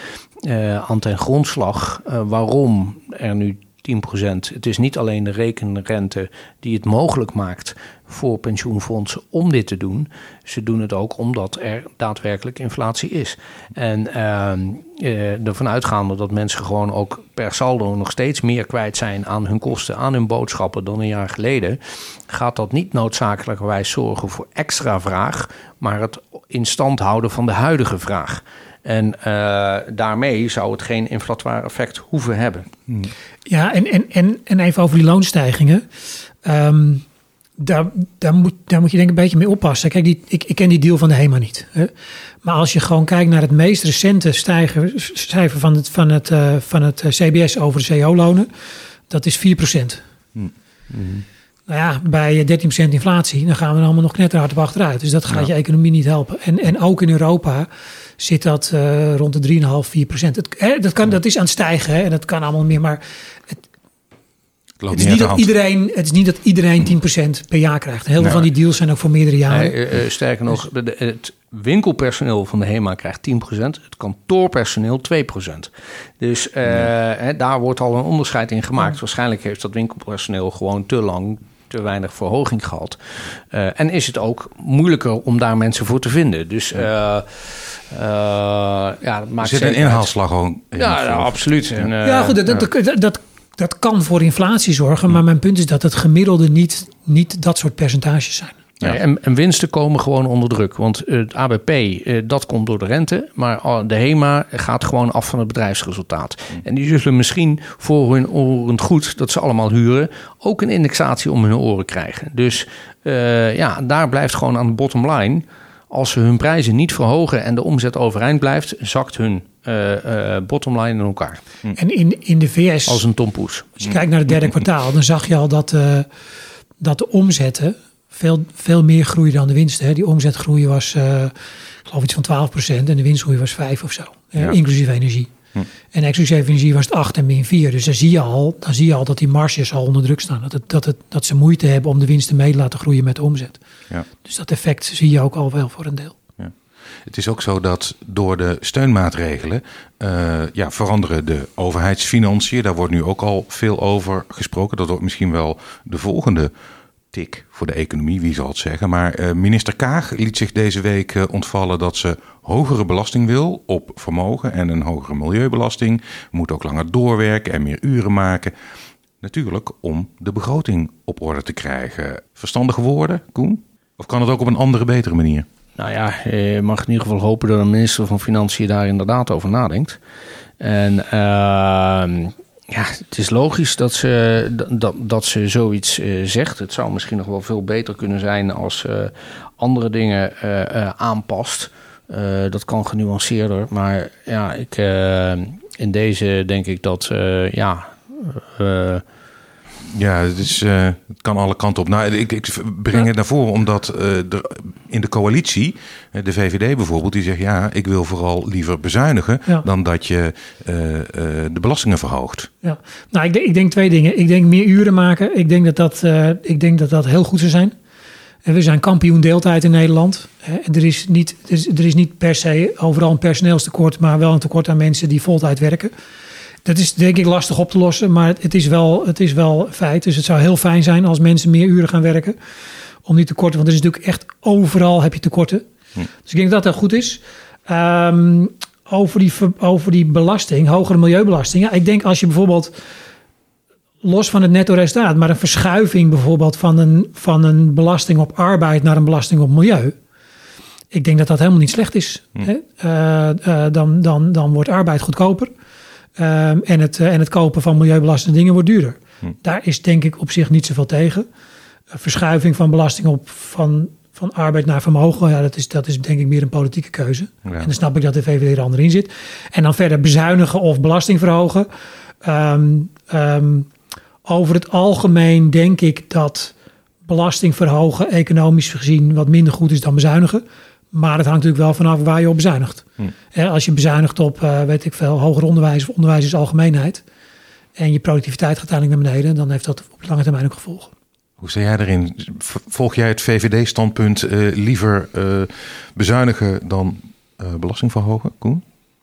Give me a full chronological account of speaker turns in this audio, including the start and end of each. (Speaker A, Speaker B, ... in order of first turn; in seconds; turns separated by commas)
Speaker A: 0.4-32.7, Speaker B: 33.5-35.9, Speaker B: 36.4-37.0, Speaker B: 37.6-41.9, Speaker B: 42.4-48.5, Speaker B: 49.1-50.0, Speaker B: 51.7-57.7, Speaker B: 58.2-63.6, Speaker C: 64.8-65.5, Speaker B: 64.9-69.8, Speaker C: 68.2-68.5, Speaker A: 69.5-90.1, Speaker C: 89.4-91.9, Speaker A: 90.8-92.4, Speaker B: 92.0-98.6, Speaker A: 98.8-121.4, Speaker B: 121.8-123.0, Speaker A: 122.9-123.9, Speaker B: 123.8-126.1, Speaker B: 126.8-131.3, Speaker B: 131.9-135.3, Speaker B: 135.9-143.6, Speaker B: 144.2-146.2, Speaker C: 147.1-156.5, Speaker C: 157.1-168.5, Speaker C: 169.2-175.5, Speaker A: 175.8-180.0, Speaker A: 180.6-199.0, Speaker C: 199.9-212.5, Speaker B: 212.6-217.7, Speaker B: 218.4-225.9, Speaker B: 226.7-232.4, Speaker B: 233.1-235.7, Speaker B: 236.2-242.7, Speaker B: 244.0-249.9, Speaker B: 250.9-255.5, Speaker B: 256.2-261.3, Speaker B: 261.9-271.7, Speaker C: 267.4-267.7, Speaker B: 272.2-273.7, Speaker B: 274.2-276.5, Speaker B: 277.1-287.0, Speaker B: 287.8-290.9, Speaker C: 291.4-298.6